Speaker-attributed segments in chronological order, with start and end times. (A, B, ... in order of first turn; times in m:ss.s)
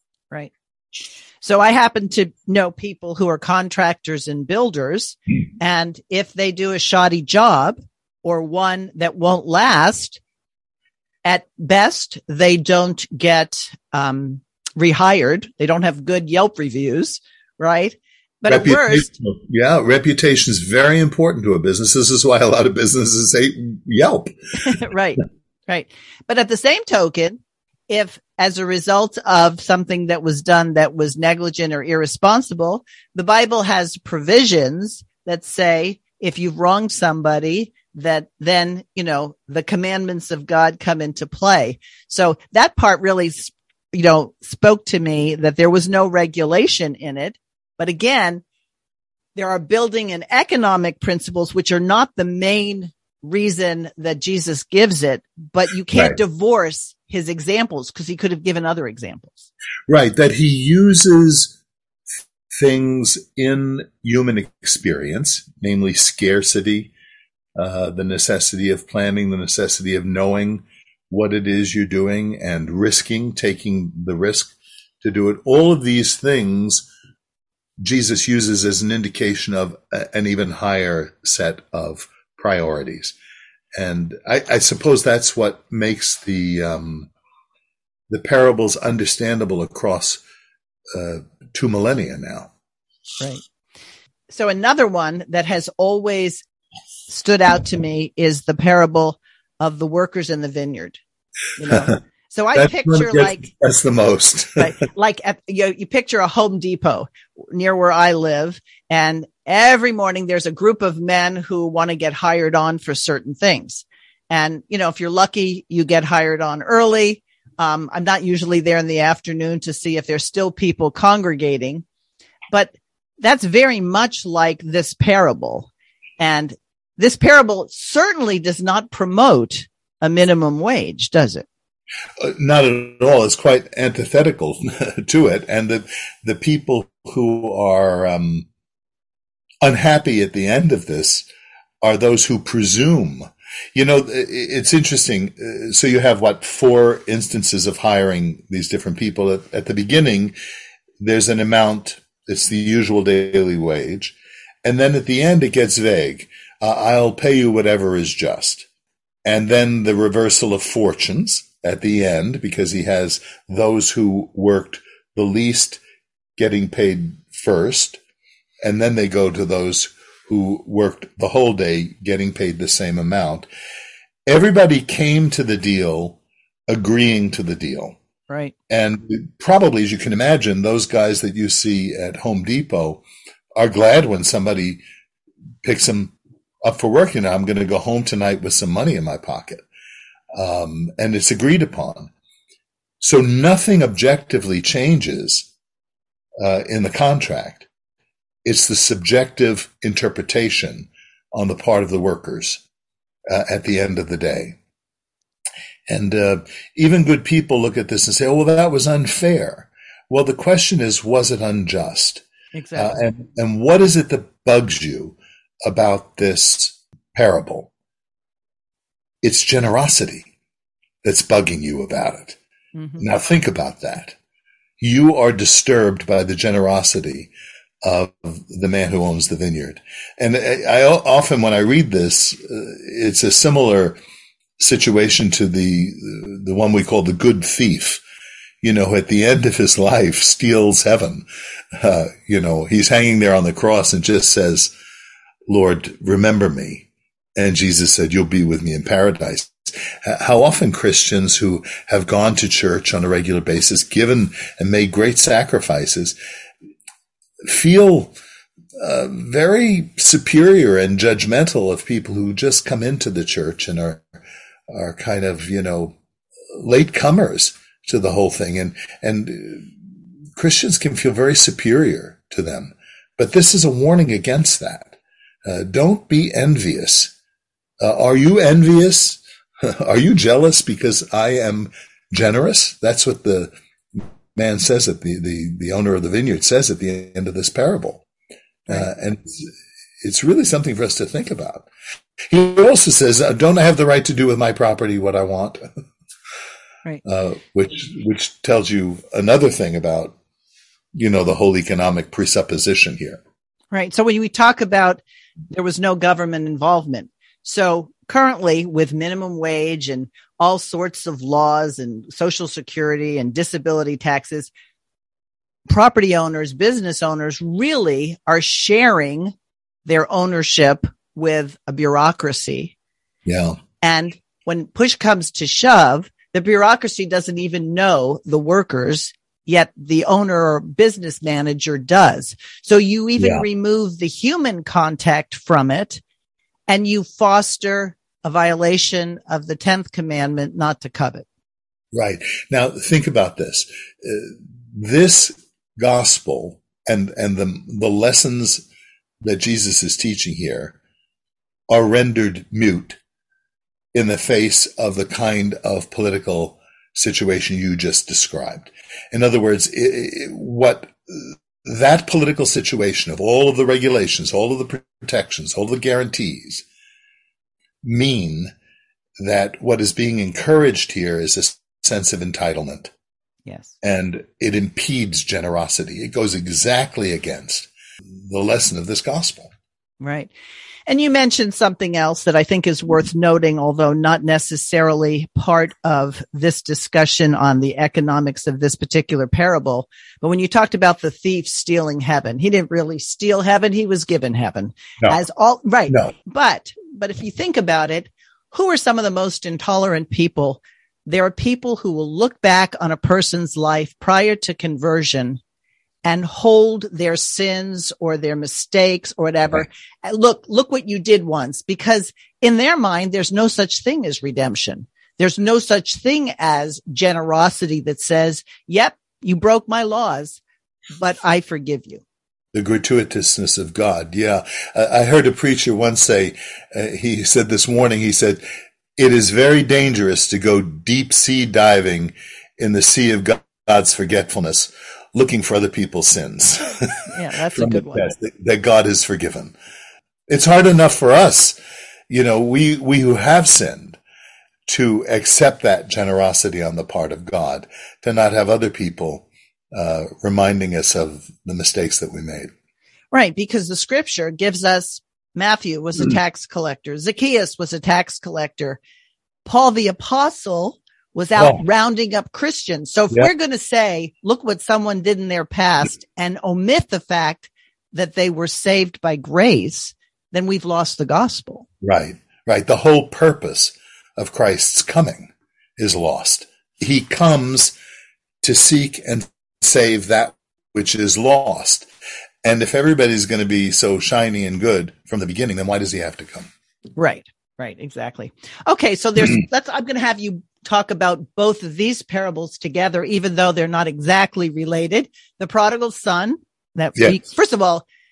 0:01.4-0:10.2 A
0:11.2-0:19.1 A
0:18.5-0:24.3 B
0:24.6-0:48.4 A
0:49.3-0:59.5 A
0:59.9-1:01.6 B
1:02.5-1:06.9 B
1:07.6-1:16.9 B
1:17.8-1:23.1 B
1:23.7-1:27.1 B
1:28.1-1:30.2 B
1:30.9-1:32.5 B
1:34.3-1:36.4 A
1:37.1-1:41.0 A
1:41.6-1:43.4 A
1:42.6-1:44.7 B
1:44.6-2:01.8 A
2:02.5-2:11.5 A
2:12.2-2:18.5 B
2:19.6-2:21.2 B
2:21.8-2:30.3 B
2:31.0-2:38.7 B
2:39.2-2:45.8 B
2:46.4-2:48.0 B
2:48.6-2:53.5 B
2:54.2-2:58.0 B
2:58.3-2:58.5 A
2:58.7-3:03.0 B
3:03.6-3:04.8 B
3:05.6-3:09.6 B
3:10.3-3:12.1 B
3:13.0-3:15.5 B
3:16.4-3:17.7 B
3:18.4-3:22.6 B
3:23.3-3:24.6 B
3:25.9-3:32.2 B
3:32.5-3:33.0 A
3:32.8-3:37.7 B
3:39.2-3:40.3 B
3:41.0-3:42.4 B
3:42.7-3:43.1 A
3:43.0-3:44.2 B
3:44.8-3:47.3 B
3:47.8-3:54.0 B
3:54.6-3:58.0 B
3:58.6-4:04.7 B
4:05.5-4:16.1 B
4:17.4-4:18.1 B
4:18.8-4:24.0 B
4:24.7-4:26.0 B
4:26.5-4:29.7 B
4:30.4-4:34.9 B
4:35.4-4:37.1 B
4:37.8-4:48.0 B
4:48.7-4:51.7 B
4:52.3-4:55.6 B
4:57.0-5:00.2 B
5:00.9-5:03.2 B
5:03.7-5:14.5 A
5:15.7-5:19.3 A
5:19.8-5:22.7 A
5:23.2-5:23.6 B
5:23.8-5:36.0 A
5:33.2-5:33.4 B
5:36.7-5:41.2 A
5:41.9-5:48.6 B
5:49.2-5:50.7 B
5:51.7-5:53.0 B
5:53.9-6:06.6 B
6:07.8-6:08.5 B
6:09.2-6:12.9 B
6:13.4-6:13.7 A
6:13.8-6:19.5 B
6:20.0-6:20.3 A
6:20.9-6:45.4 A
6:35.9-6:36.1 B
6:46.0-7:00.4 A
7:00.9-7:02.0 A
7:02.5-7:08.4 B
7:09.0-7:19.5 B
7:17.1-7:18.1 A
7:20.3-7:21.6 B
7:22.1-7:24.0 B
7:24.7-7:32.5 B
7:33.1-7:38.8 A
7:39.4-7:51.6 A
7:41.4-7:41.6 B
7:51.8-7:57.7 B
7:58.4-8:01.9 B
8:02.4-8:06.5 B
8:07.0-8:17.8 A